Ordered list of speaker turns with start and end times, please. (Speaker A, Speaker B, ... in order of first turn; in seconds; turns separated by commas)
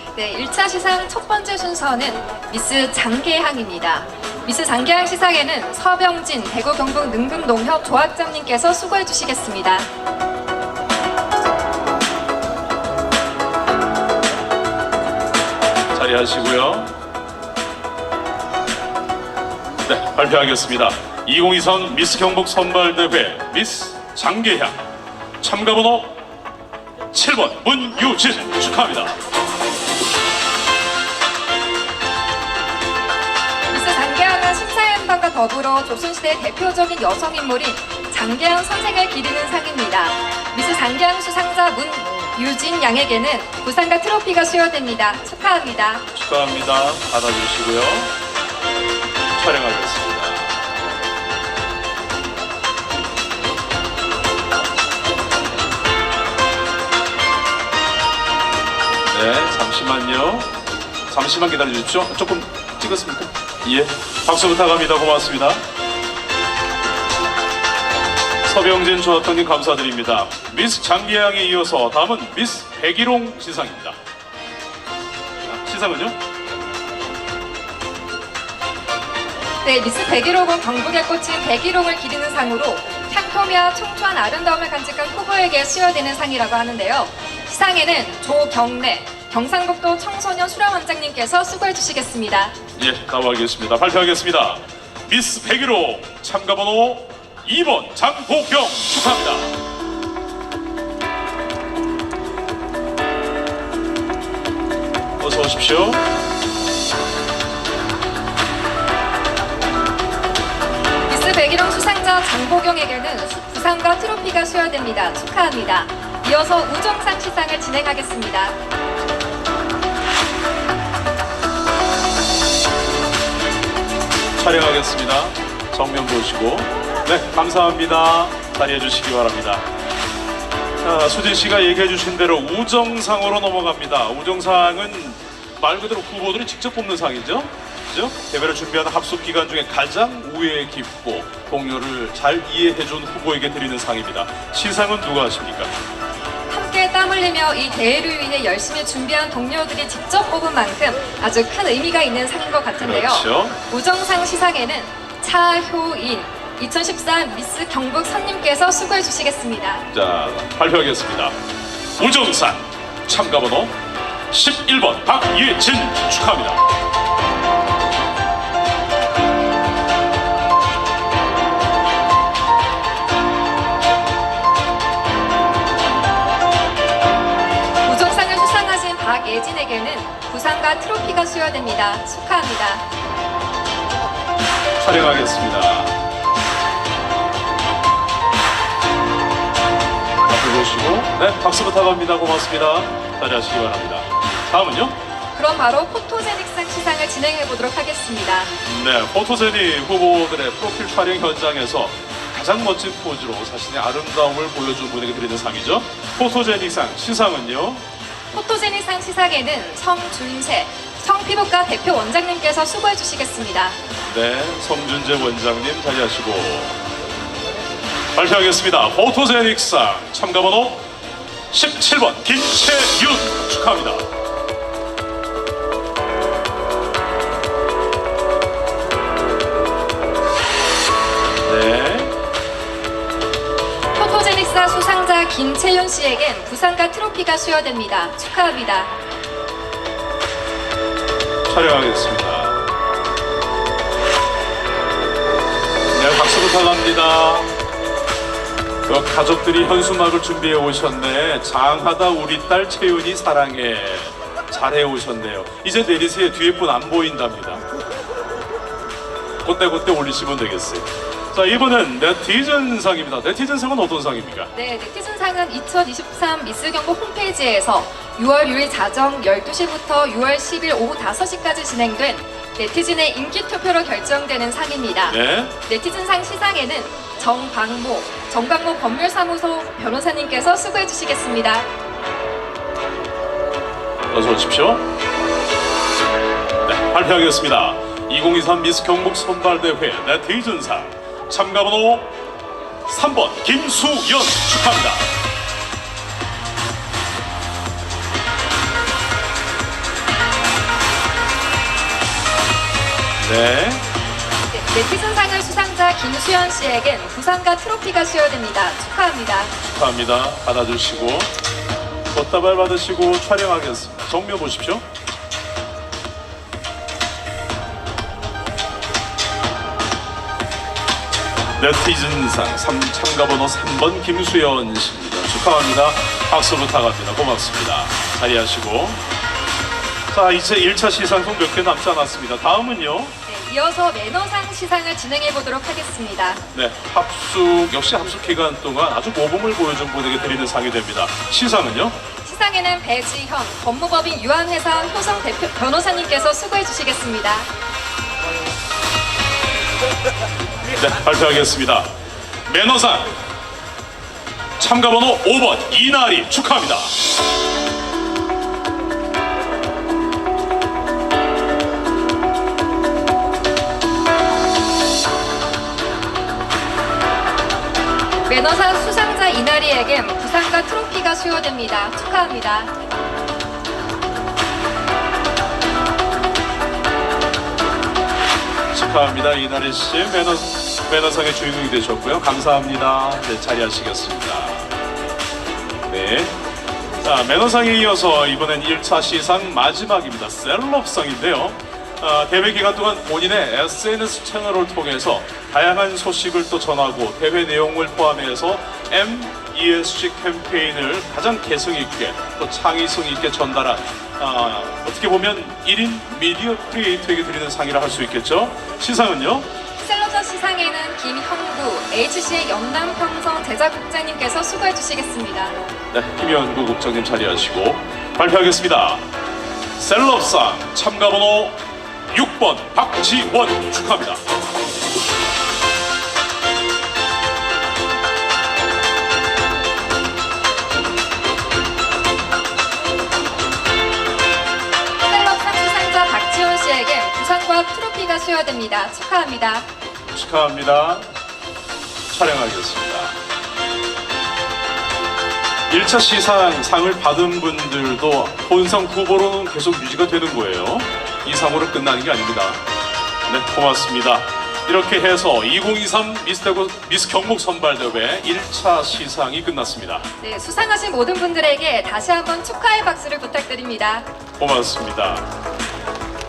Speaker A: 0.1-9.9, Speaker B: 15.9-16.9, Speaker B: 19.9-24.8, Speaker B: 25.4-26.2, Speaker B: 27.1-29.2, Speaker A: 33.7-46.0, Speaker B: 46.1-48.1, Speaker B: 49.4-50.6, Speaker B: 59.1-60.5, Speaker B: 61.1-65.6, Speaker B: 68.5-74.0, Speaker B: 75.5-76.2, Speaker A: 79.6-92.5, Speaker B: 92.8-99.6, Speaker B: 105.2-106.0, Speaker A: 111.1-118.6, Speaker B: 124.4-129.7, Speaker B: 130.8-145.7, Speaker A: 146.5-159.9, Speaker B: 152.8-153.6, Speaker B: 159.9-161.3, Speaker B: 162.0-163.8, Speaker B: 164.3-166.6, Speaker A: 177.8-182.8, Speaker B: 184.8-186.0, Speaker B: 190.3-195.0, Speaker A: 195.3-198.5, Speaker B: 198.6-207.8, Speaker A: 208.3-213.8, Speaker B: 214.1-216.8, Speaker B: 218.2-220.9, Speaker B: 221.5-224.1, Speaker B: 231.4-232.2, Speaker A: 234.0-239.0, Speaker B: 241.5-242.6, Speaker B: 245.9-247.5, Speaker B: 248.9-257.6, Speaker B: 259.4-264.5, Speaker A: 264.5-281.7, Speaker B: 275.1-275.5, Speaker B: 284.1-284.9, Speaker B: 286.6-292.1, Speaker B: 292.9-295.1, Speaker B: 303.2-303.8, Speaker A: 304.5-309.6, Speaker B: 309.6-311.3, Speaker B: 312.1-314.9, Speaker B: 321.6-329.0, Speaker B: 330.1-333.1, Speaker A: 333.3-336.4, Speaker B: 336.5-342.0, Speaker A: 342.2-347.5, Speaker B: 350.8-351.9, Speaker B: 352.4-353.1, Speaker B: 354.6-356.9, Speaker A: 368.3-372.7, Speaker B: 378.7-384.7, Speaker B: 385.9-386.4, Speaker B: 387.0-409.5, Speaker A: 409.8-415.6, Speaker B: 415.9-419.1, Speaker B: 419.8-424.2, Speaker A: 435.1-439.7, Speaker B: 440.1-441.1, Speaker B: 442.1-443.2, Speaker B: 445.7-452.6, Speaker B: 453.3-460.1, Speaker A: 460.2-464.1, Speaker B: 464.4-465.3